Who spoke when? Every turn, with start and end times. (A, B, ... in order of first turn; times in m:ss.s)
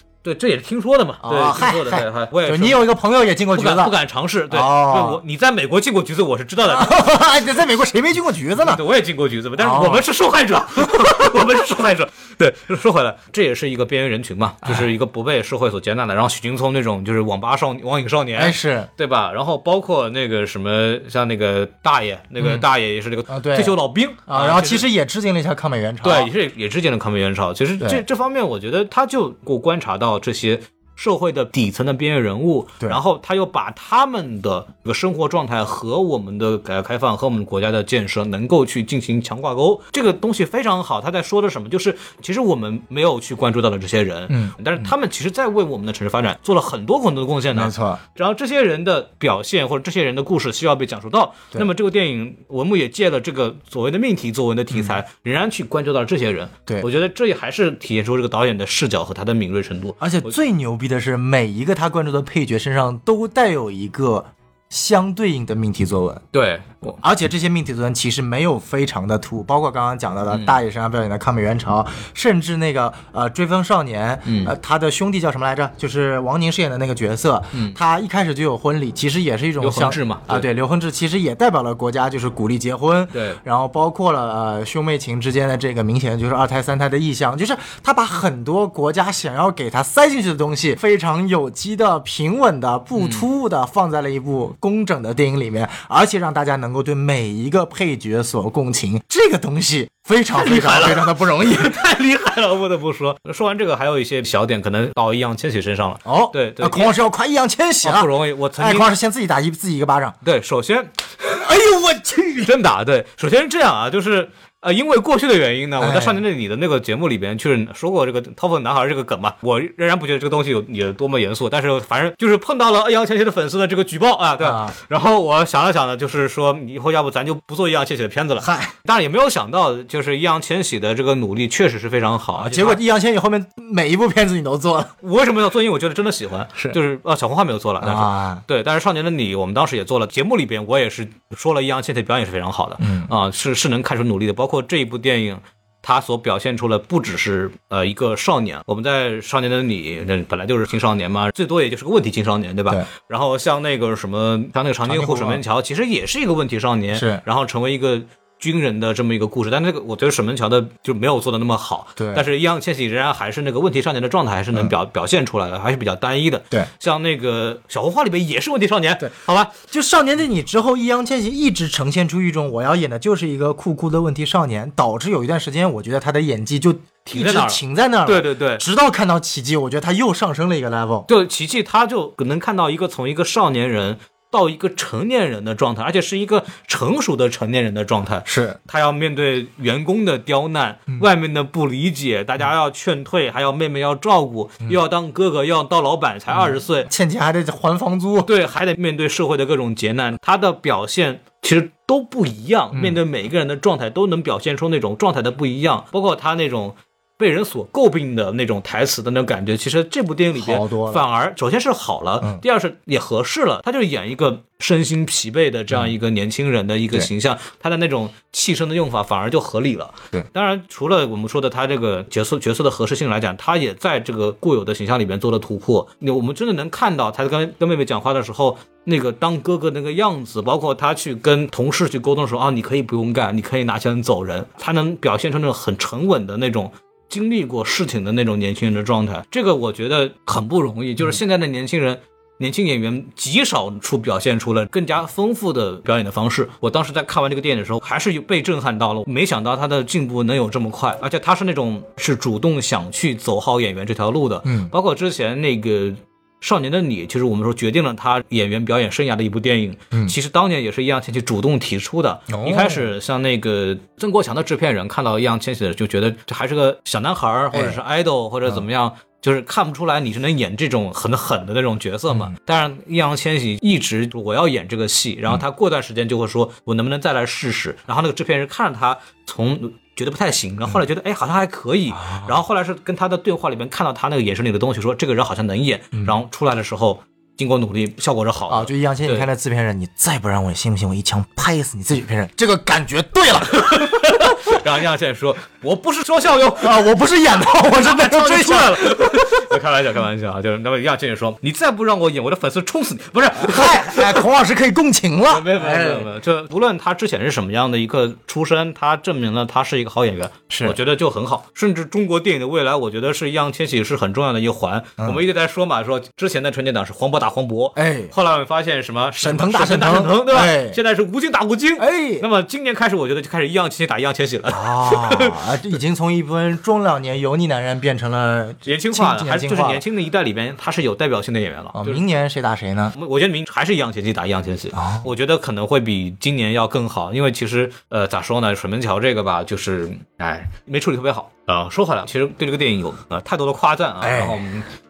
0:00.2-0:02.8 A
0:01.2-0:03.9 B
0:03.5-0:07.1 A
0:04.5-0:05.2 B
0:06.7-0:08.8 B
0:08.6-0:24.9 A
0:09.6-0:10.0 B
0:10.8-0:11.2 B
0:18.4-0:18.9 B
0:22.4-0:22.6 B
0:23.3-0:26.3 B
0:26.0-1:00.3 A
0:44.3-0:44.9 B
0:47.5-0:48.0 B
1:00.0-1:06.2 B
1:06.3-1:07.0 A
1:07.0-1:41.8 B
1:10.3-1:10.6 A
1:14.2-1:14.5 A
1:19.6-1:20.5 A
1:23.1-1:23.4 A
1:33.0-1:33.2 A
1:40.3-1:46.9 A
1:46.0-1:50.2 B
1:47.8-1:48.9 A
1:50.2-1:51.4 A
1:51.4-1:52.5 B
1:52.4-2:12.8 A
1:55.8-1:56.2 B
2:04.4-2:04.7 B
2:08.4-2:08.7 B
2:12.4-2:14.9 B
2:15.0-2:49.5 A
2:17.8-2:18.4 B
2:22.8-2:23.1 B
2:34.8-2:35.4 B
2:36.9-2:37.2 B
2:42.0-2:42.2 B
2:49.7-3:01.1 B
2:57.1-2:58.6 A
3:01.1-3:16.9 A
3:08.2-3:08.6 B
3:16.3-3:18.3 B
3:18.2-4:49.3 A
3:30.4-3:31.0 B
4:14.4-4:14.7 B
4:22.3-4:22.9 B
4:27.5-4:27.8 B
4:42.0-4:42.3 B
4:48.5-4:54.4 B
4:53.6-5:04.2 A
4:56.6-4:59.6 B
5:03.4-5:06.1 B
5:05.3-5:25.4 A
5:10.5-5:10.8 B
5:17.7-5:18.1 B
5:19.2-5:20.8 B
5:21.8-5:22.2 B
5:24.5-5:29.8 B
5:28.6-5:32.0 A
5:31.7-5:32.9 B
5:32.9-5:44.7 A
5:34.7-5:35.1 B
5:44.0-5:44.4 B